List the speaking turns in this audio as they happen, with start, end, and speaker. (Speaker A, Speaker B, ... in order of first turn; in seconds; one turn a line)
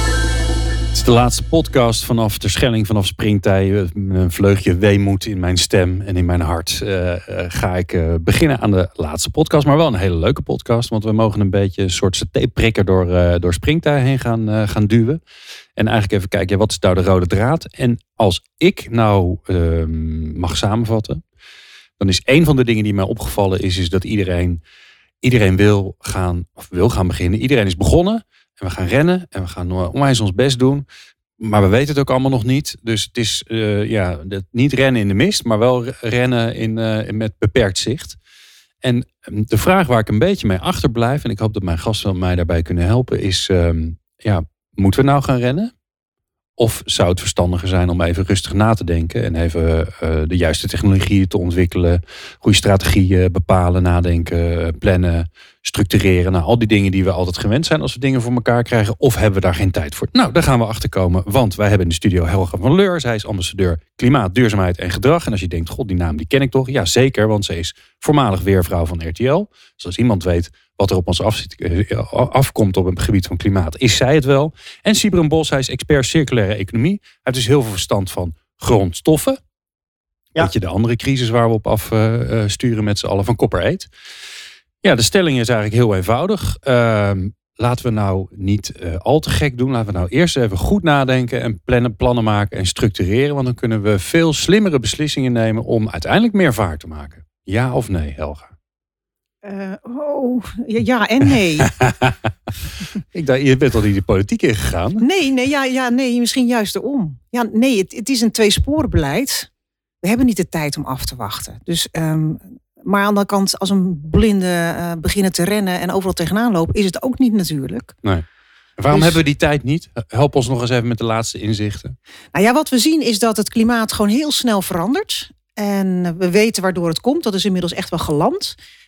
Speaker A: 0.9-15.2
Speaker A: 15.8-21.2
Speaker A: 22.0-24.6
Speaker A: 25.2-30.8
Speaker A: 31.4-38.2
Speaker A: 38.8-45.7
Speaker A: 46.6-79.4
Speaker A: 80.4-83.9
Speaker A: 84.8-98.5
Speaker B: 99.4-101.7
Speaker A: 101.6-102.1
Speaker A: 103.1-105.0
Speaker B: 105.0-109.5
Speaker B: 110.0-118.0
Speaker A: 118.8-122.0
Speaker B: 118.9-119.2
Speaker B: 122.3-128.5